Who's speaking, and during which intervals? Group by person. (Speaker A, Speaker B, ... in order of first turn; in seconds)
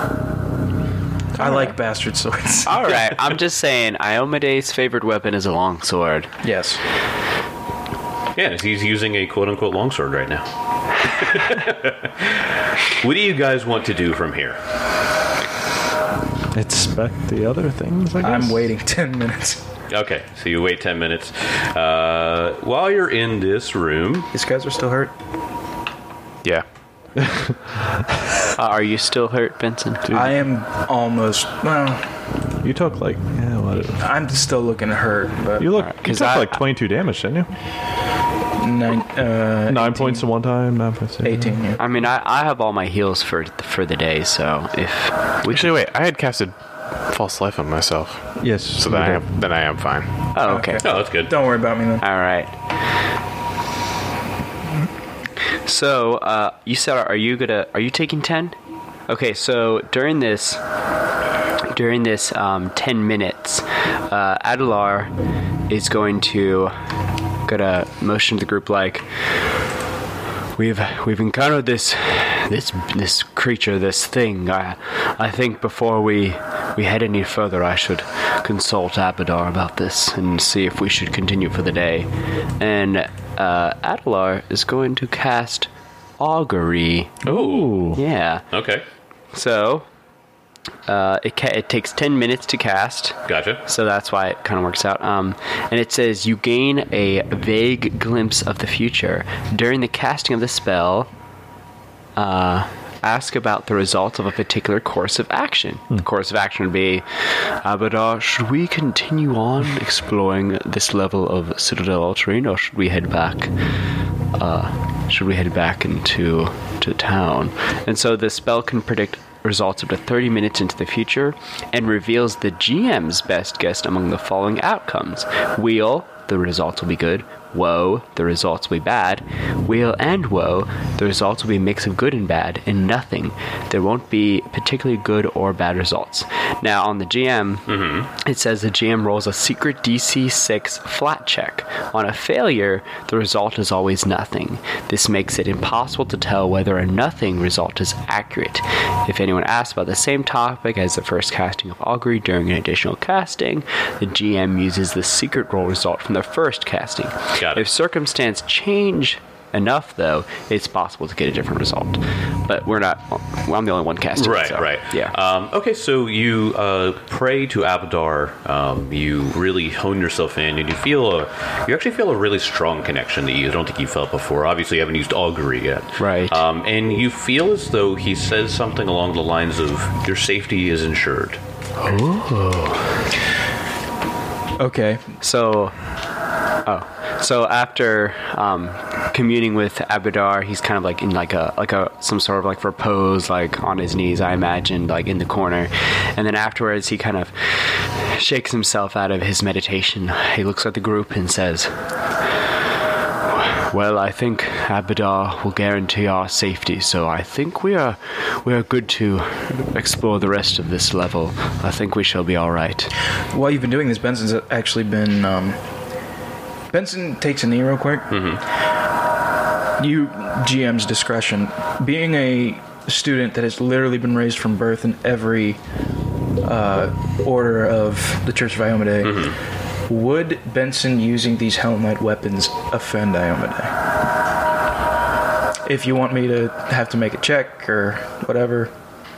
Speaker A: 1.4-2.7, 6.4-6.8, 18.2-19.6, 24.3-25.1, 30.1-32.1, 34.0-35.7, 38.6-40.3, 41.2-41.8, 50.4-52.0, 184.6-185.1, 213.3-215.6, 216.7-218.2, 219.8-225.6, 226.4-233.8, 235.7-238.7
Speaker B: 1.4-1.7, 2.6-6.3, 28.6-30.1, 35.8-36.6, 41.8-45.7, 50.3-50.8, 52.0-52.6, 55.6-58.6, 59.1-60.6, 61.6-65.1, 65.7-66.7, 67.5-69.1, 70.5-87.3, 87.9-88.5, 89.3-89.9, 90.9-101.1, 102.2-113.5, 114.3-165.2, 176.0-176.4, 181.8-183.0, 185.2-185.8, 186.7-201.8, 203.3-212.9
Speaker C: 8.4-10.5, 11.0-14.6, 19.9-24.3, 50.8-51.3, 87.3-87.9, 88.5-88.8, 93.3-93.6, 137.7-138.1, 157.4-157.7, 164.2-181.4, 218.1-218.4, 229.0-229.3
Speaker D: 16.5-18.7, 27.2-27.8, 30.1-30.4, 32.6-34.0, 35.6-37.5, 39.7-41.6, 48.4-49.3, 87.2-88.0
Speaker E: 45.5-50.1